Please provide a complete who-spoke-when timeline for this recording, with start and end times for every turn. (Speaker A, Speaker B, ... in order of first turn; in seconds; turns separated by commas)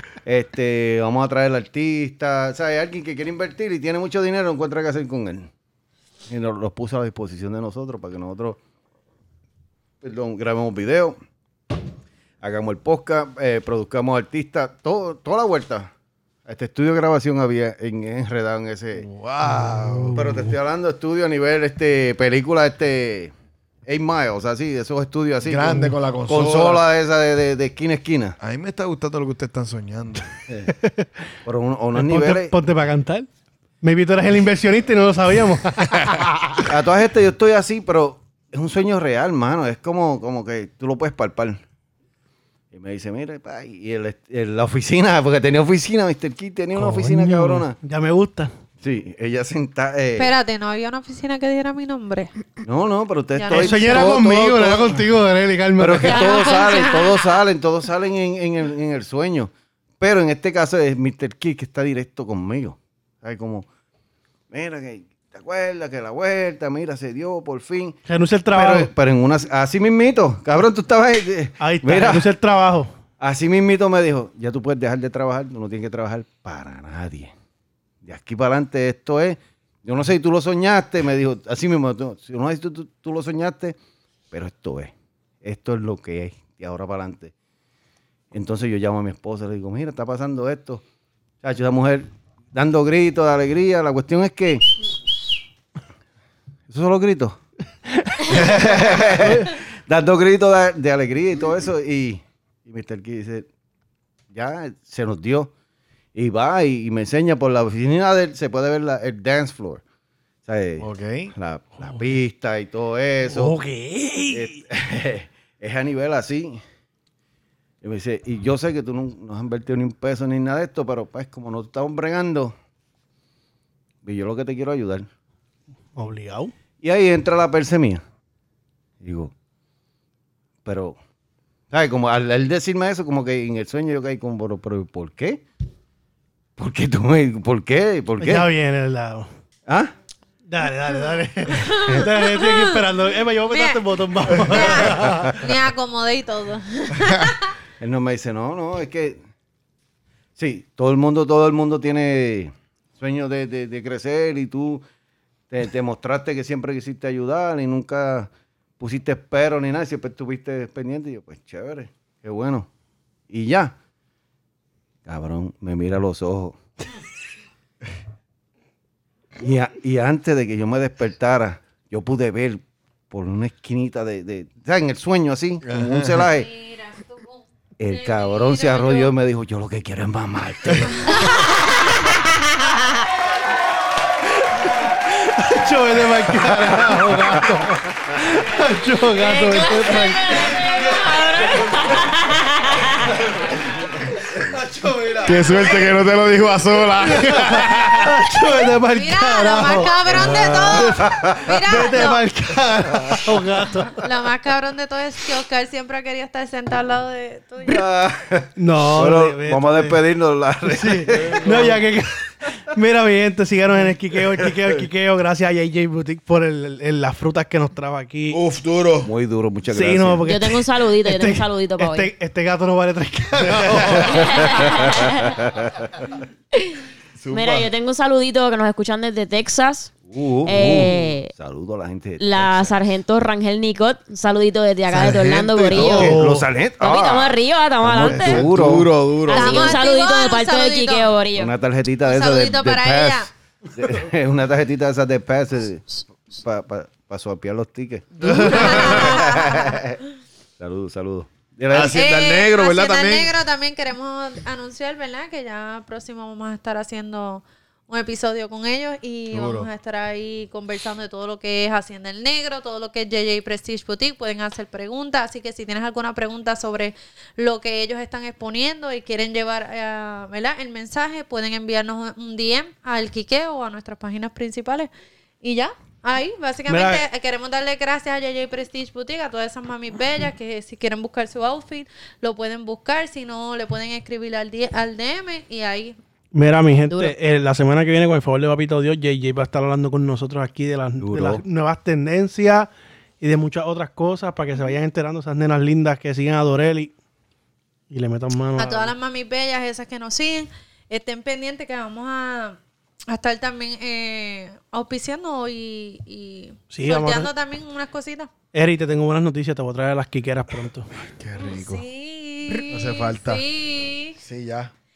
Speaker A: 0.2-5.5, Speaker A: 6.3-8.6, Speaker A: 10.0-11.2, Speaker A: 12.4-15.9, Speaker A: 16.4-19.1, Speaker B: 18.9-20.2, Speaker C: 19.4-20.5, Speaker A: 20.1-23.3, Speaker A: 23.9-28.4, Speaker B: 25.4-26.8, Speaker B: 28.4-30.4, Speaker A: 30.5-30.7, Speaker C: 30.7-31.2, Speaker A: 31.4-32.5, Speaker C: 31.9-33.3, Speaker C: 33.8-36.6, Speaker A: 36.6-41.6, Speaker A: 42.7-47.8, Speaker C: 46.7-48.5, Speaker A: 48.8-50.3, Speaker D: 50.1-52.3, Speaker A: 52.6-55.1, Speaker D: 53.4-54.1, Speaker C: 53.5-56.3, Speaker A: 55.8-63.7, Speaker D: 56.0-57.2, Speaker A: 64.5-68.0, Speaker C: 68.1-68.9, Speaker A: 68.5-72.3, Speaker C: 71.6-72.9, Speaker A: 73.2-77.3, Speaker A: 78.0-83.8, Speaker A: 84.3-87.3, Speaker A: 88.3-90.8, Speaker A: 91.4-94.6, Speaker A: 96.7-97.4, Speaker A: 98.2-103.5, Speaker C: 99.2-99.5, Speaker A: 104.3-105.5, Speaker A: 106.1-109.8, Speaker A: 110.5-113.6, Speaker B: 110.8-111.3, Speaker C: 113.3-114.6, Speaker A: 114.3-116.6, Speaker A: 117.8-122.5, Speaker A: 124.0-125.1, Speaker C: 126.0-126.5, Speaker A: 126.8-128.0, Speaker A: 129.0-129.3, Speaker A: 130.6-130.9, Speaker A: 131.7-135.4, Speaker A: 136.6-138.5, Speaker C: 138.2-139.3, Speaker A: 139.7-139.9, Speaker C: 140.5-145.3, Speaker D: 141.6-142.8, Speaker D: 143.5-143.8, Speaker D: 144.4-147.5, Speaker A: 147.8-149.2, Speaker A: 150.3-154.8, Speaker A: 155.5-162.7, Speaker A: 163.3-163.7, Speaker A: 165.1-166.6, Speaker A: 169.4-176.5, Speaker B: 175.6-176.3, Speaker D: 176.3-179.1, Speaker A: 177.8-181.5, Speaker D: 181.0-181.5, Speaker C: 185.0-190.7, Speaker E: 189.4-193.2, Speaker D: 189.5-191.0, Speaker C: 194.4-195.8, Speaker B: 195.2-198.1, Speaker C: 197.0-204.0, Speaker D: 198.8-202.2, Speaker A: 200.7-202.1, Speaker A: 202.9-203.3, Speaker D: 204.0-207.9, Speaker A: 207.6-211.8, Speaker C: 208.6-210.0, Speaker C: 210.7-218.4, Speaker B: 211.2-211.7, Speaker B: 218.3-219.1, Speaker A: 219.0-220.2, Speaker C: 219.7-224.4, Speaker E: 220.2-222.1, Speaker B: 223.4-224.0, Speaker E: 224.2-225.2, Speaker A: 225.4-225.7, Speaker B: 227.2-227.7, Speaker E: 227.3-231.3, Speaker A: 230.1-232.7, Speaker E: 232.2-236.2, Speaker B: 234.9-236.0, Speaker A: 235.6-238.9, Speaker C: 235.9-236.4, Speaker E: 236.8-238.5, Speaker B: 238.0-239.8, Speaker E: 239.3-241.5, Speaker D: 239.3-241.1, Speaker A: 241.3-250.0, Speaker D: 242.0-243.3, Speaker B: 248.2-249.2, Speaker D: 248.3-249.8, Speaker A: 250.6-252.0, Speaker B: 251.7-253.3, Speaker D: 251.9-274.9, Speaker B: 259.3-259.7, Speaker D: 275.4-286.0, Speaker C: 276.7-277.0, Speaker C: 286.3-292.7, Speaker A: 291.0-291.4, Speaker C: 293.2-296.9, Speaker C: 297.9-298.9, Speaker D: 298.6-302.6, Speaker D: 303.1-308.3, Speaker C: 306.7-307.3, Speaker C: 308.5-310.9, Speaker B: 311.2-311.8, Speaker D: 311.4-314.2, Speaker B: 312.5-313.4, Speaker B: 314.2-314.7